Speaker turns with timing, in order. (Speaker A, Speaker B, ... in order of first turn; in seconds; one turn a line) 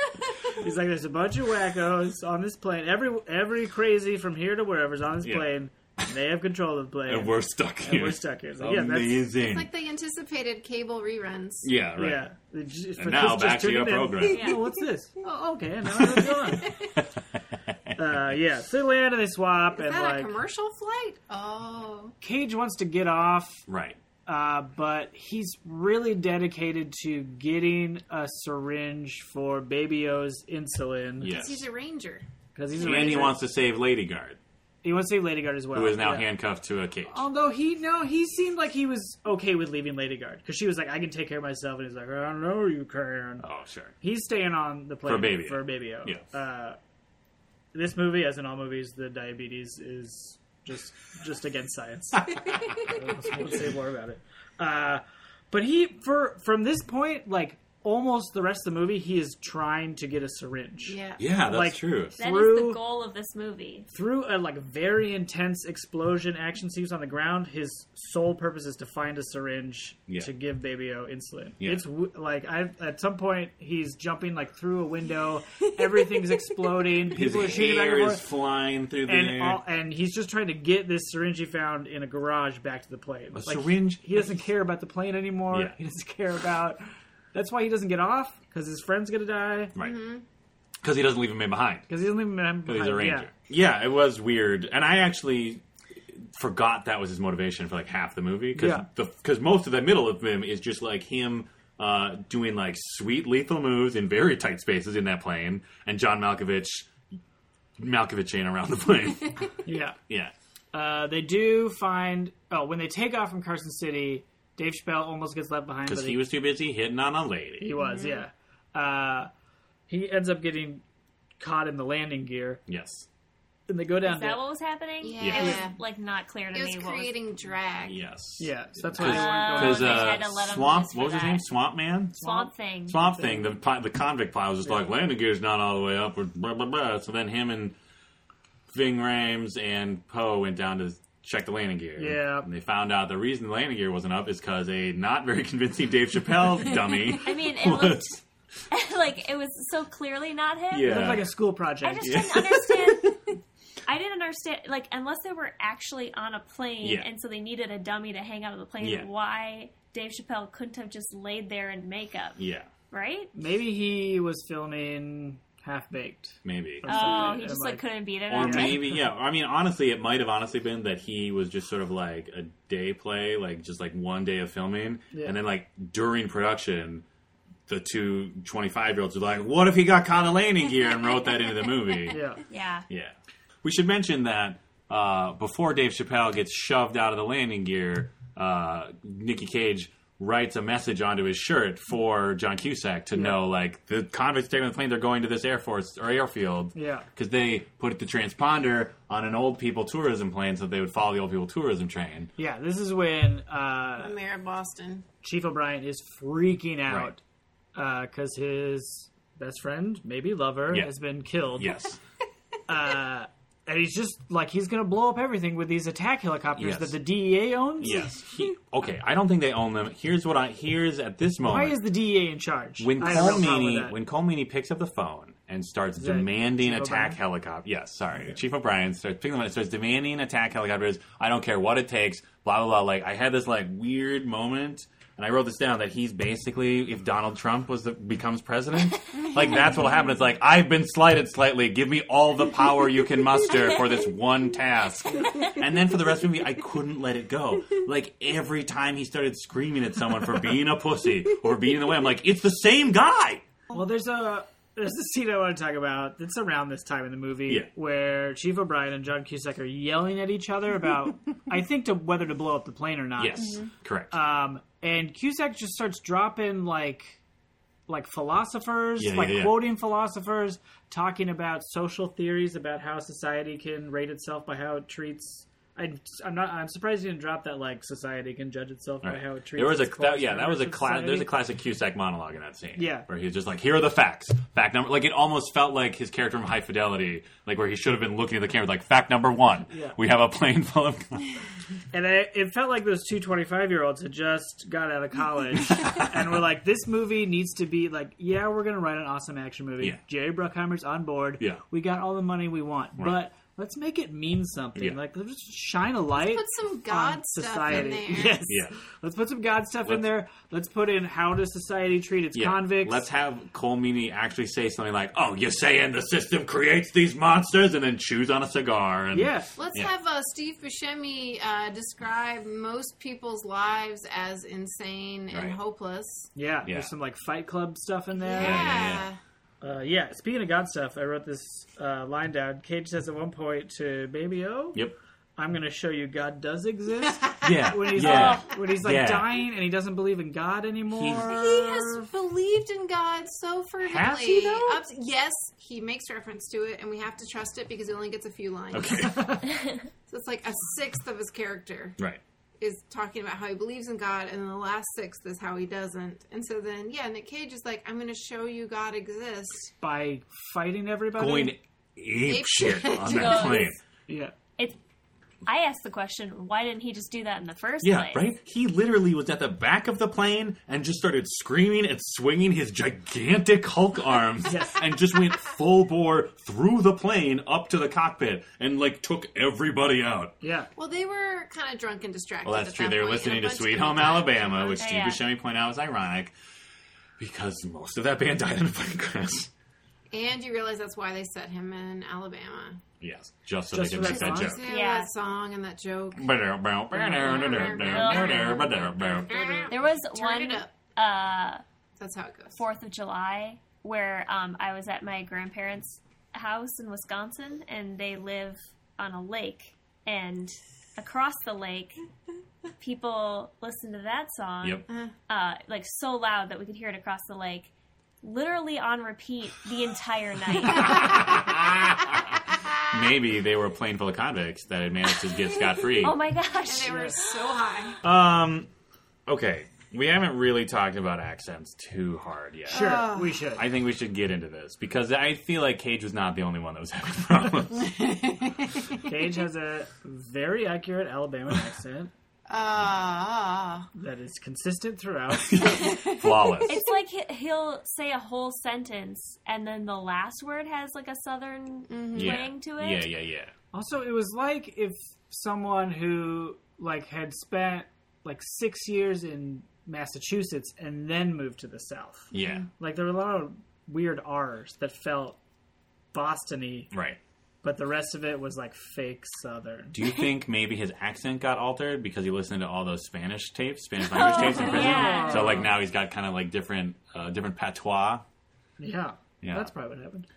Speaker A: 0.5-9.3
Speaker B: 5.2-5.5
Speaker B: 7.0-9.7
Speaker C: 9.4-11.7
Speaker B: 11.6-12.2
Speaker A: 12.0-16.7
Speaker B: 13.0-14.6
Speaker D: 14.3-14.6
Speaker B: 16.0-18.0
Speaker C: 16.6-16.9
Speaker A: 17.9-20.3
Speaker C: 19.8-22.1
Speaker A: 22.2-23.6
Speaker B: 23.7-24.0
Speaker A: 24.2-31.3
Speaker B: 31.2-31.7
Speaker C: 31.2-32.2
Speaker A: 32.5-33.4
Speaker B: 32.8-34.4
Speaker A: 34.8-36.3
Speaker B: 35.7-37.2
Speaker A: 37.0-43.5
Speaker B: 43.4-43.9
Speaker A: 44.0-46.8
Speaker B: 45.0-46.2
Speaker A: 47.7-61.0
Speaker C: 60.9-61.2
Speaker B: 61.2-62.1
Speaker A: 61.5-62.8
Speaker D: 62.2-63.9
Speaker A: 63.9-78.2
Speaker B: 77.1-79.6
Speaker A: 79.0-86.8
Speaker B: 83.3-84.3
Speaker A: 87.3-89.7
Speaker C: 89.8-90.2
Speaker B: 90.8-91.9
Speaker A: 91.9-93.3
Speaker B: 92.7-106.9
Speaker A: 98.5-98.9
Speaker B: 107.8-109.5
Speaker A: 109.6-110.0
Speaker A: 110.7-116.2
Speaker B: 115.8-117.7
Speaker A: 117.6-119.3
Speaker C: 117.8-118.3
Speaker A: 119.9-120.8
Speaker A: 121.4-122.6
Speaker B: 122.7-123.0
Speaker A: 123.7-124.4
Speaker D: 124.0-127.1
Speaker C: 125.0-125.8
Speaker B: 125.2-125.6
Speaker C: 126.5-128.0
Speaker B: 127.8-132.2
Speaker A: 128.4-130.2
Speaker D: 129.0-131.4
Speaker A: 132.2-132.5
Speaker D: 132.2-133.0
Speaker B: 132.9-137.8
Speaker A: 133.1-133.5
Speaker B: 138.7-148.2
Speaker A: 142.0-142.5
Speaker D: 147.2-148.2
Speaker D: 148.7-151.1
Speaker B: 150.7-151.3
Speaker A: 150.8-152.3
Speaker D: 151.8-153.2
Speaker B: 152.0-153.2
Speaker D: 153.8-162.4
Speaker B: 156.8-157.1
Speaker B: 158.8-159.1
Speaker B: 162.4-162.7
Speaker D: 162.9-163.3
Speaker A: 163.3-167.8
Speaker B: 166.4-167.1
Speaker D: 166.8-168.9
Speaker B: 168.3-177.0
Speaker A: 168.4-169.0
Speaker A: 175.1-175.4
Speaker B: 177.7-182.2
Speaker A: 182.1-182.4
Speaker D: 182.5-182.8
Speaker B: 182.9-202.3
Speaker A: 196.7-197.1
Speaker A: 202.4-204.1
Speaker C: 204.0-205.1
Speaker A: 205.2-207.2
Speaker B: 206.9-207.1
Speaker A: 207.7-211.8
Speaker B: 211.5-212.0
Speaker A: 212.7-218.1
Speaker B: 216.5-217.0
Speaker B: 217.8-221.8
Speaker A: 221.4-223.9
Speaker B: 222.8-253.4
Speaker A: 226.0-227.2
Speaker A: 253.7-263.6
Speaker B: 263.2-264.1
Speaker A: 264.1-267.2
Speaker A: 267.9-281.3
Speaker B: 269.0-269.6
Speaker B: 279.0-291.3
Speaker A: 282.8-283.1
Speaker A: 289.7-290.0
Speaker A: 291.9-313.0
Speaker C: 306.1-308.5
Speaker B: 307.7-308.8
Speaker B: 312.3-319.9
Speaker A: 319.1-319.5
Speaker C: 319.6-326.3
Speaker B: 325.3-325.6
Speaker A: 326.3-328.7
Speaker B: 326.6-326.9
Speaker C: 328.2-329.2
Speaker B: 328.4-329.1
Speaker A: 329.6-334.8
Speaker A: 335.4-342.0
Speaker B: 337.4-339.3
Speaker D: 338.0-338.4
Speaker B: 340.9-341.5
Speaker C: 341.2-349.4
Speaker B: 343.8-344.8
Speaker B: 348.7-349.4
Speaker A: 349.0-349.5
Speaker C: 350.1-352.0
Speaker C: 352.6-359.7
Speaker A: 359.8-361.6
Speaker B: 361.1-363.8
Speaker C: 362.2-363.7
Speaker D: 363.0-363.7
Speaker A: 364.1-364.3
Speaker D: 365.4-368.2
Speaker B: 367.8-380.3
Speaker A: 374.4-374.8
Speaker A: 380.4-380.7
Speaker C: 380.8-384.8
Speaker B: 382.4-386.3
Speaker D: 384.7-385.2
Speaker B: 387.2-389.5
Speaker C: 390.1-392.8
Speaker B: 393.0-394.6
Speaker A: 393.7-394.6
Speaker C: 394.0-396.4
Speaker D: 394.6-395.1
Speaker B: 396.1-399.6
Speaker C: 396.9-400.7
Speaker D: 397.2-398.8
Speaker A: 399.3-399.7
Speaker D: 399.7-401.6
Speaker C: 402.0-402.6
Speaker D: 402.5-412.0
Speaker D: 412.8-417.7
Speaker D: 418.2-421.3
Speaker B: 420.6-422.3
Speaker B: 422.9-426.2
Speaker D: 426.0-427.6
Speaker C: 426.6-428.0
Speaker A: 426.8-427.1
Speaker B: 428.0-428.7
Speaker B: 429.3-437.9
Speaker C: 432.7-433.4
Speaker A: 432.7-433.6
Speaker C: 437.8-439.0
Speaker A: 439.0-442.1
Speaker C: 442.5-443.9
Speaker A: 443.9-445.8
Speaker B: 445.3-446.8
Speaker C: 445.7-446.8
Speaker D: 446.6-453.1
Speaker C: 451.9-452.4
Speaker B: 452.1-453.5
Speaker A: 453.7-465.4
Speaker B: 462.3-462.7
Speaker A: 466.1-466.9
Speaker B: 466.9-467.2
Speaker A: 467.6-469.9
Speaker B: 469.9-478.2
Speaker D: 474.0-475.6
Speaker A: 474.5-475.7
Speaker A: 478.8-480.3
Speaker B: 479.4-479.7